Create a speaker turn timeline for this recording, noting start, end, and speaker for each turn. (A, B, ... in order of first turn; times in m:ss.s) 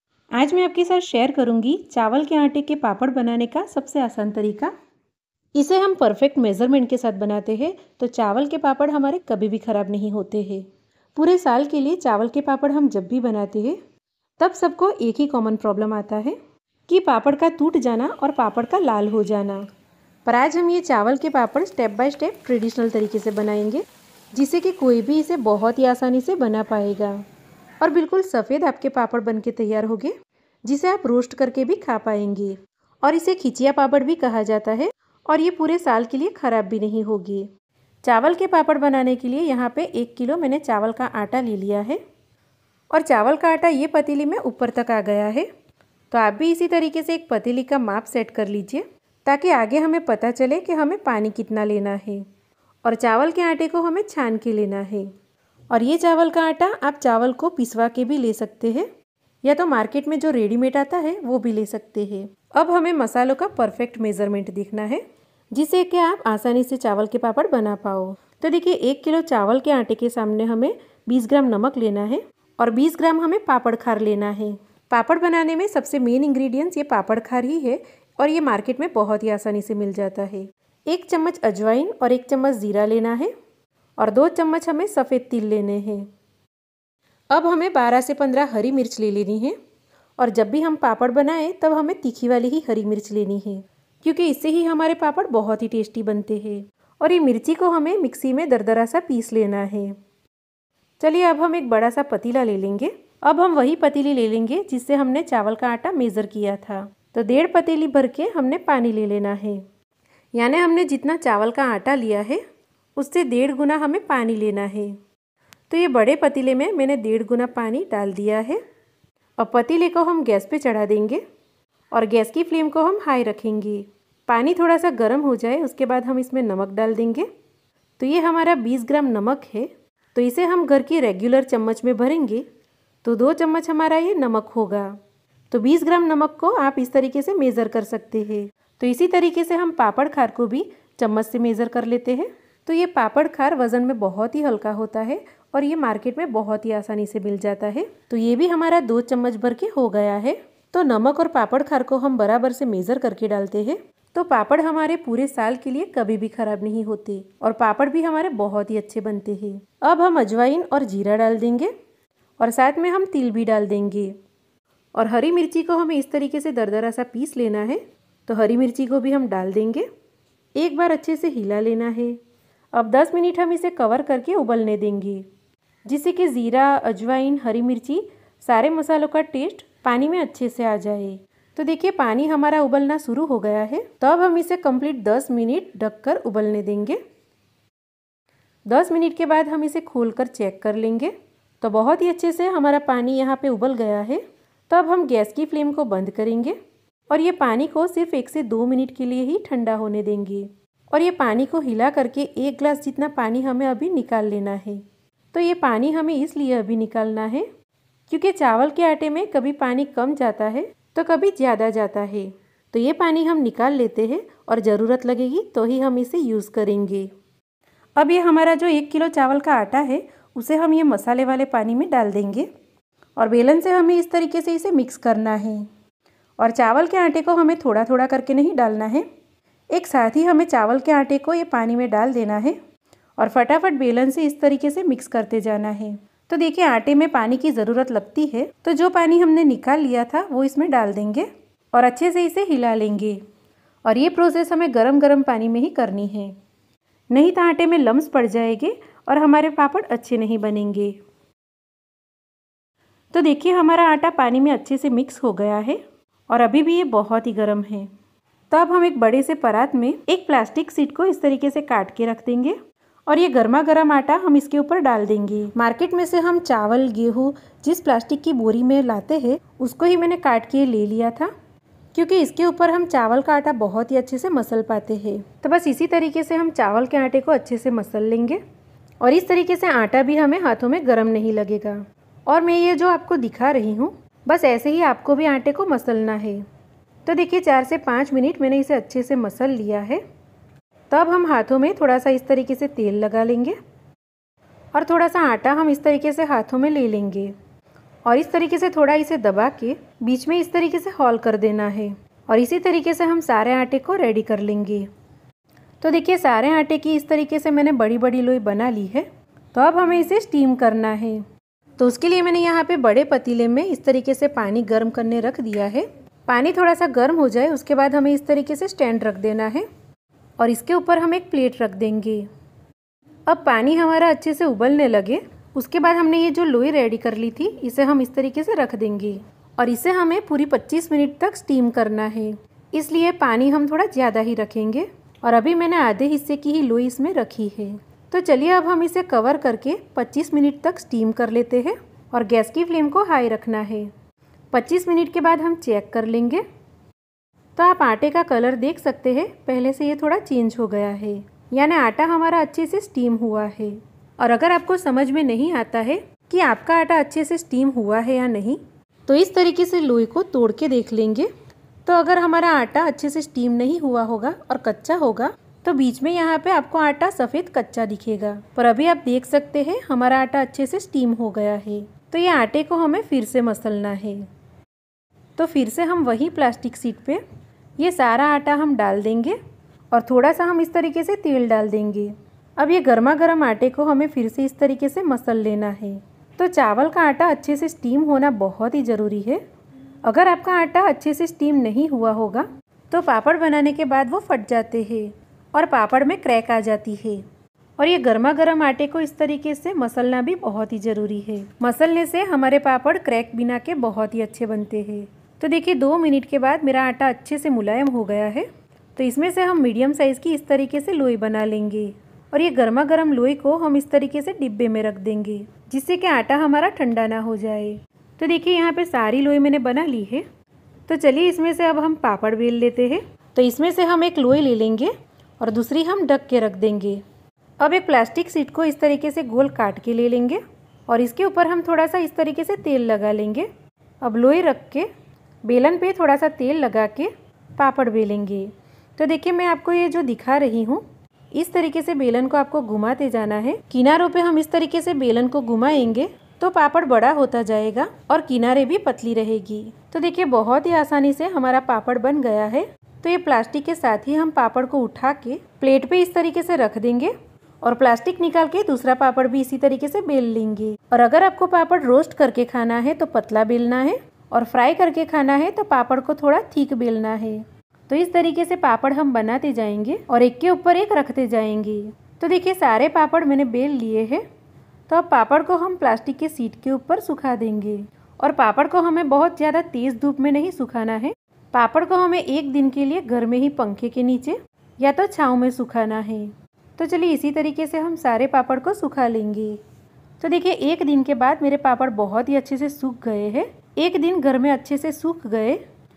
0:00.3-0:04.7 A
0:05.6-0:13.8 A
0:14.4-0:16.4 A
0:16.9-0:19.7 A
0:20.2-0:27.2 A
0:27.8-0:30.1 A
0:30.6-0:37.5 A
0:38.0-0:42.0 A
0:42.9-0:45.5 A
0:46.1-0:52.2 A
0:52.8-0:55.1 A
0:55.7-0:58.9 A
0:59.4-1:05.0 A
1:05.5-1:23.3 A
1:24.0-1:26.1 A
1:27.3-1:29.6 A
1:30.2-1:40.0 A
1:41.0-1:49.6 A
1:50.3-1:52.4 A
1:53.0-1:55.0 A
1:55.7-1:58.6 A
1:59.4-2:01.2 A
2:01.9-2:07.3 A
2:08.0-2:12.5 A
2:13.0-2:15.0 A
2:15.5-2:41.7 A
2:42.4-2:44.2 A
2:44.9-2:49.9 A
2:50.6-2:52.2 A
2:52.7-2:55.3 A
2:55.8-3:07.0 A
3:08.7-3:16.6 A
3:17.1-3:27.5 A
3:28.1-3:37.1 A
3:38.0-3:42.5 A
3:43.2-3:45.7 A
3:46.4-3:49.1 A
3:49.7-3:52.6 A
3:53.2-4:03.2 A
4:03.8-4:06.4 A
4:07.1-4:11.0 A
4:13.1-4:17.9 A
4:18.5-4:22.6 A
4:23.1-4:31.3 A
4:31.9-4:38.4 A
4:39.0-4:46.4 A
4:47.1-4:50.0 A
4:50.9-4:53.6 A
4:54.7-4:57.3 A
4:58.0-5:04.9 A
5:05.8-5:11.2 A
5:11.8-5:19.7 A
5:20.4-5:22.3 A
5:23.3-5:43.9 A
5:44.5-5:46.4 A
5:47.6-6:01.3 A
6:01.8-6:14.3 A
6:15.4-6:17.2 A
6:17.8-6:19.4 A
6:19.9-6:29.4 A
6:30.0-6:37.2 A
6:37.8-7:00.3 A
7:00.9-7:07.0 A
7:07.6-7:13.5 A
7:14.0-7:14.9 A
7:15.4-7:54.2 A
7:54.9-8:09.6 A
8:10.2-8:15.6 A